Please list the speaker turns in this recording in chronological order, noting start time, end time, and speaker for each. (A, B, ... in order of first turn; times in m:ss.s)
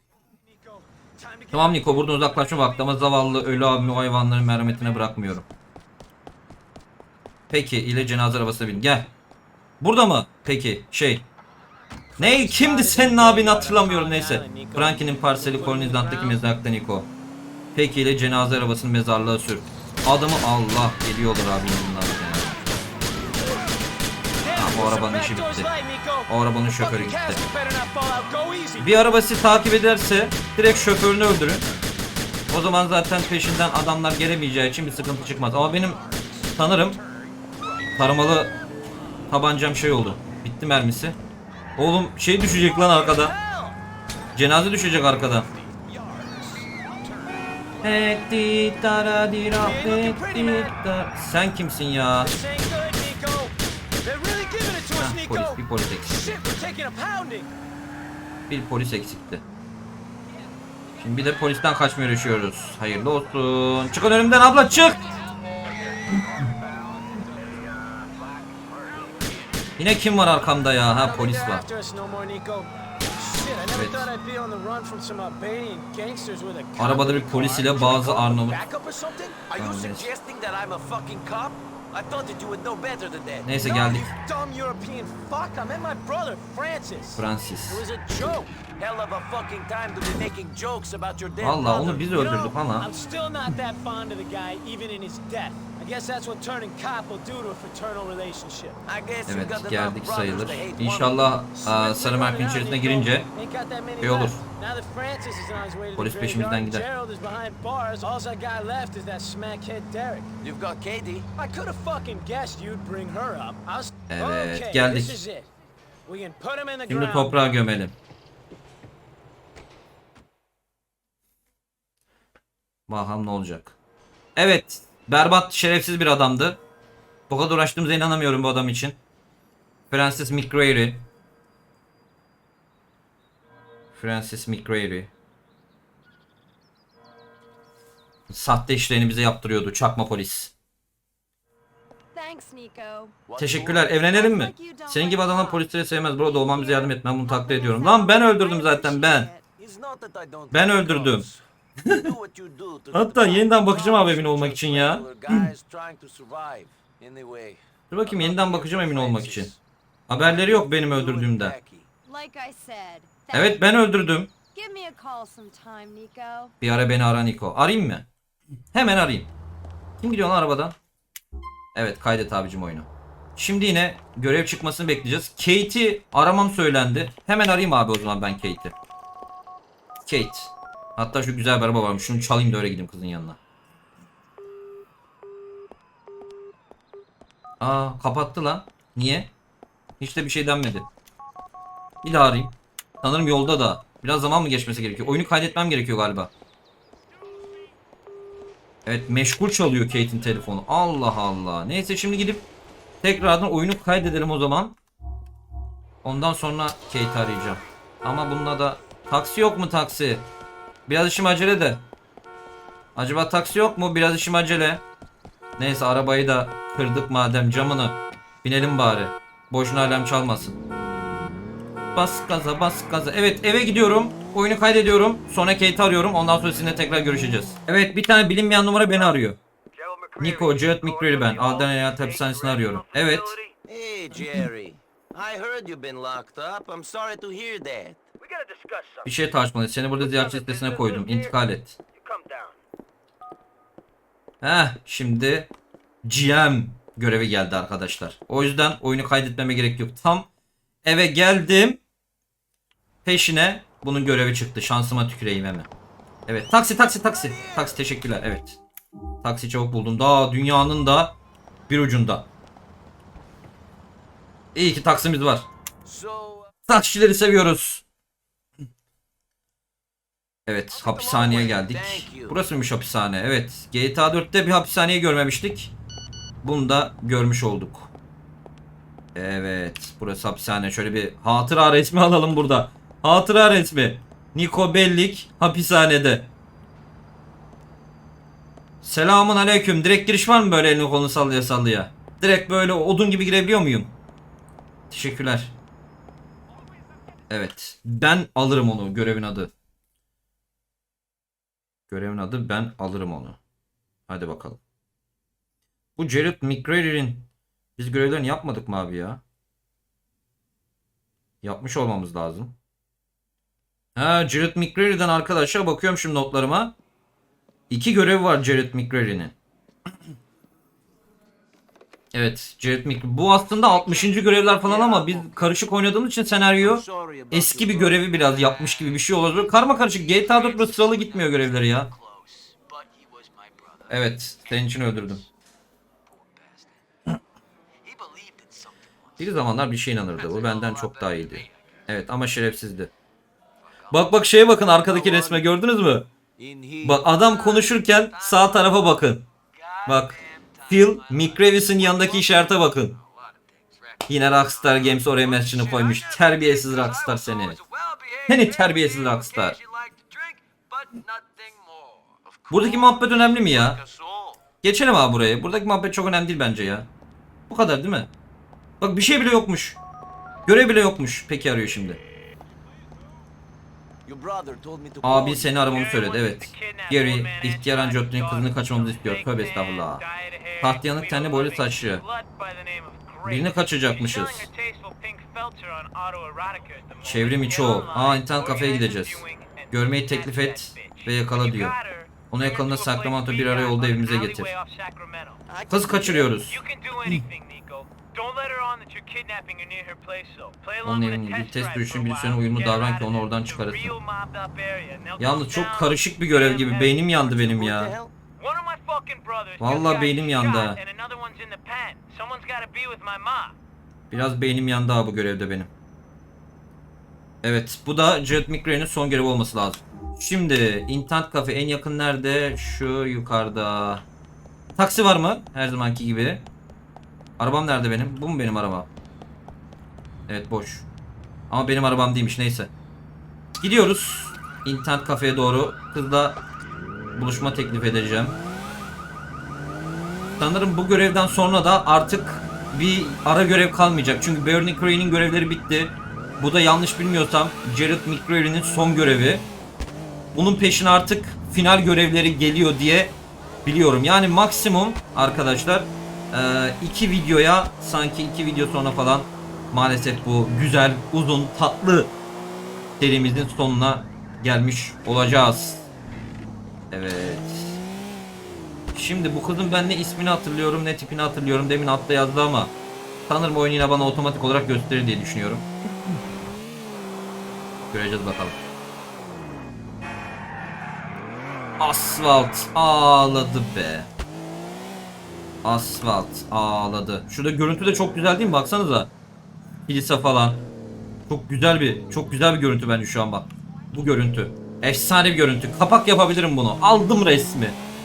0:00.3-0:05.1 A
0:01.5-0:05.4 B
0:07.5-0:09.1 B
0:09.8-0:11.2 B
0:12.2-0:16.5 A
0:12.2-0:17.1 B
0:17.7-0:22.5 B
0:24.4-0:29.0 A
0:24.5-0:25.7 B
0:26.3-0:27.4 B
0:28.8-0:31.7 B
0:32.5-0:37.0 B
0:38.0-0:38.5 B
0:39.3-0:41.2 B
0:41.8-0:43.3 B
0:42.6-0:43.8 A
0:44.3-0:45.5 B
0:45.4-0:47.9 A
0:47.8-0:52.3 B
0:49.6-0:50.8 A
0:52.2-0:57.5 A
0:54.9-0:56.4 B
0:58.5-0:59.4 B
1:01.0-1:05.1 B
1:06.2-1:09.4 C
1:09.8-1:11.6 B
1:10.9-1:19.4 A
1:13.7-1:14.1 B
1:16.8-1:18.6 B
1:19.4-1:23.5 C
1:19.5-1:20.1 B
1:23.4-1:24.1 B
1:23.6-1:28.5 A
1:27.2-1:27.8 B
1:28.7-1:32.1 C
1:31.4-1:32.9 B
1:32.1-1:38.8 A
1:38.8-1:41.2 C
1:39.3-1:43.3 B
1:41.6-1:50.3 A
1:44.0-1:44.4 B
1:46.0-1:46.8 B
1:50.4-1:51.3 C
1:51.4-1:55.5 A
1:54.1-1:55.2 B
1:56.0-1:57.4 A
1:56.9-1:57.9 B
2:02.9-2:03.7 B
2:04.4-2:06.6 B
2:07.3-2:09.0 B
2:09.9-2:11.0 B
2:13.9-2:15.1 B
2:18.3-2:20.5 B
2:22.1-2:23.2 D
2:23.2-2:23.9 C
2:23.4-2:29.3 B
2:23.9-2:29.4 D
2:29.6-2:39.6 C
2:30.5-2:31.2 B
2:31.8-2:32.1 B
2:32.9-2:35.5 B
2:37.9-2:39.5 B
2:40.1-2:41.5 B
2:40.2-2:41.9 C
2:42.0-2:43.6 D
2:43.3-2:44.3 B
2:44.5-2:46.5 D
2:46.6-2:48.0 B
2:48.7-2:49.3 B
2:50.0-2:50.8 B
2:51.7-2:58.7 B
3:00.0-3:03.4 B
3:07.6-3:09.3 B
3:10.0-3:10.8 B
3:12.0-3:16.3 B
3:18.8-3:22.5 B
3:23.0-3:24.7 B
3:26.0-3:30.3 B
3:30.9-3:31.8 B
3:33.0-3:34.8 B
3:35.6-3:40.6 B
3:41.9-3:49.4 B
3:49.7-3:59.1 C
3:50.2-3:53.4 B
3:59.0-4:01.8 B
4:00.0-4:01.3 C
4:02.0-4:02.6 C
4:04.4-4:05.5 B
4:06.0-4:10.3 B
4:10.8-4:11.8 B
4:13.0-4:15.7 B
4:16.3-4:18.6 B
4:17.0-4:17.8 C
4:19.2-4:21.1 B
4:21.7-4:22.3 B
4:24.5-4:25.5 B
4:25.8-4:26.5 C
4:26.7-4:27.8 B
4:30.4-4:35.7 B
4:30.7-4:32.4 C
4:36.4-4:37.9 B
4:39.1-4:46.3 B
4:48.8-4:53.9 B
4:54.9-4:55.5 B
4:57.3-4:59.5 B
5:01.9-5:03.4 B
5:04.1-5:04.6 B
5:06.0-5:09.2 B
5:11.4-5:12.6 B
5:14.0-5:16.7 B
5:17.7-5:19.3 B
5:22.1-5:31.9 B
5:23.9-5:25.5 C
5:26.6-5:29.0 C
5:29.9-5:34.0 C
5:33.9-5:35.2 B
5:36.0-5:36.8 C
5:37.8-5:39.3 C
5:39.2-5:42.9 B
5:40.1-5:41.7 C
5:43.6-5:45.5 C
5:43.9-5:46.1 B
5:46.4-5:48.9 C
5:46.8-5:49.2 B
5:49.5-6:04.4 C
5:49.8-5:53.0 B
5:54.1-5:57.6 B
5:58.3-5:59.6 B
6:02.5-6:03.8 B
6:04.6-6:06.9 B
6:07.5-6:08.1 B
6:08.8-6:09.8 B
6:10.4-6:12.0 B
6:14.0-6:15.6 C
6:15.0-6:20.0 B
6:15.6-6:35.4 A
6:20.6-6:22.0 B
6:23.2-6:24.5 B
6:27.0-6:31.8 B
6:32.3-6:34.5 B
6:35.5-6:36.3 C
6:35.7-6:37.2 B
6:36.5-6:47.0 A
6:40.8-6:44.0 B
6:45.2-6:47.9 B
6:47.1-6:48.1 C
6:48.4-6:53.6 A
6:49.6-6:50.8 B
6:54.1-6:55.7 B
6:57.4-7:04.0 B
7:04.8-7:06.4 B
7:07.4-7:08.9 B
7:10.3-7:10.8 B
7:11.5-7:12.7 B
7:13.6-7:16.4 B
7:17.1-7:18.4 B
7:20.4-7:29.4 B
7:30.3-7:42.1 B
7:43.0-7:45.9 B
7:46.9-7:47.8 B
7:48.9-7:52.7 B
7:53.3-7:55.7 B
7:57.9-7:58.6 B
8:01.8-8:04.1 B
8:05.6-8:09.1 B
8:09.9-8:10.7 B
8:11.3-8:17.8 B